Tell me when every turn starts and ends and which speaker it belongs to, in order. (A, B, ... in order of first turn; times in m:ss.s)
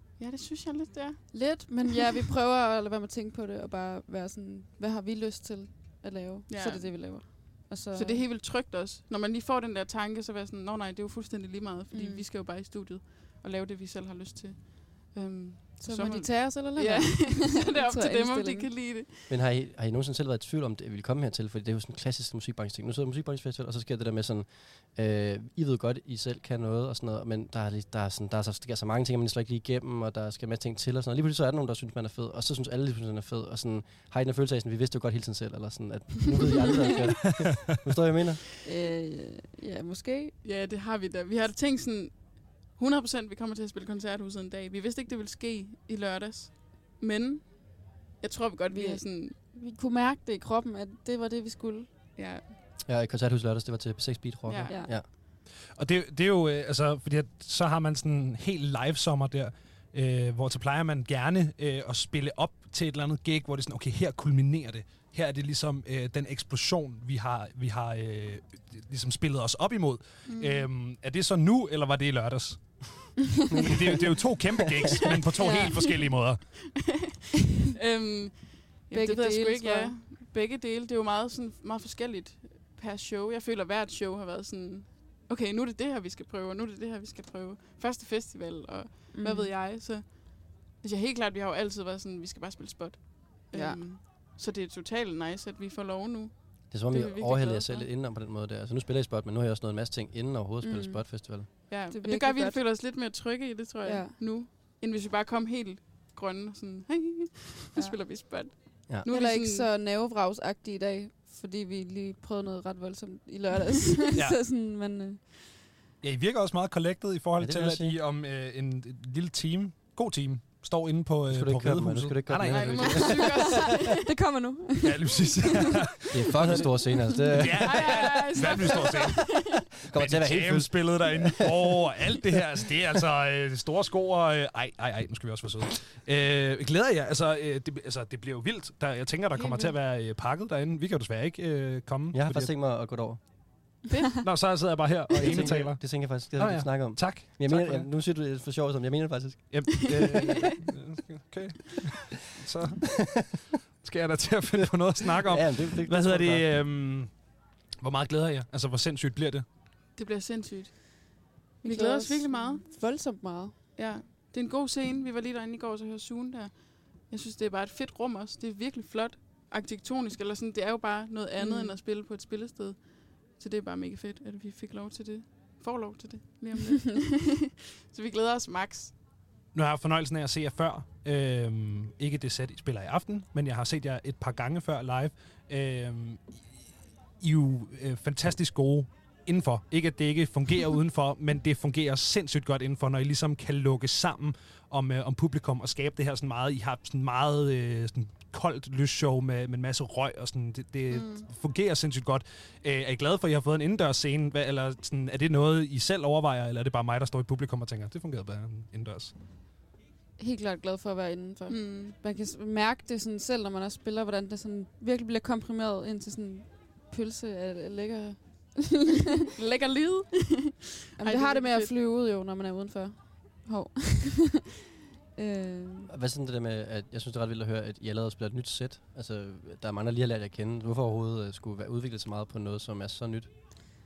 0:00.2-0:01.7 A
0:01.3-0:08.2 B
0:06.5-0:19.4 A
0:11.9-0:12.2 B
0:15.8-0:18.7 B
0:19.3-0:38.4 C
0:37.4-0:37.8 D
0:38.6-0:40.4 B
0:40.4-0:49.4 A
0:48.7-0:51.9 B
0:52.2-0:52.5 A
0:52.8-0:55.1 C
0:54.5-0:54.8 A
0:54.7-0:54.9 B
0:55.7-1:16.5 D
1:10.3-1:10.7 A
1:13.5-1:14.0 C
1:15.3-1:16.1 A
1:15.4-1:15.7 B
1:16.7-1:17.1 A
1:17.7-1:37.9 A
1:18.9-1:20.0 B
1:29.1-1:29.5 B
1:33.5-1:33.8 B
1:36.7-1:41.5 C
1:40.6-1:42.6 B
1:41.7-1:49.7 A
1:43.8-1:44.2 B
1:48.6-1:55.2 B
1:54.2-1:54.4 D
1:56.0-2:03.6 D
1:57.4-1:58.0 C
2:01.3-2:03.6 C
2:02.5-2:04.0 A
2:03.0-2:05.5 B
2:04.8-2:22.6 D
2:06.1-2:08.1 C
2:07.6-2:09.7 A
2:08.7-2:09.2 B
2:09.4-2:11.6 C
2:19.4-2:19.8 A
2:22.1-2:23.8 C
2:23.9-2:24.2 A
2:24.2-2:27.9 D
2:25.1-2:30.0 C
2:29.5-2:39.5 D
2:32.9-2:33.4 C
2:34.5-2:36.5 C
2:39.9-2:42.7 A
2:41.6-2:43.6 B
2:43.8-2:59.0 A
2:51.4-2:51.8 B
2:59.5-3:29.2 D
3:20.9-3:21.2 A
3:30.2-3:39.0 B
3:31.5-3:32.0 A
3:39.4-3:41.7 A
3:41.0-3:44.4 B
3:45.2-3:45.9 B
3:45.9-3:53.3 C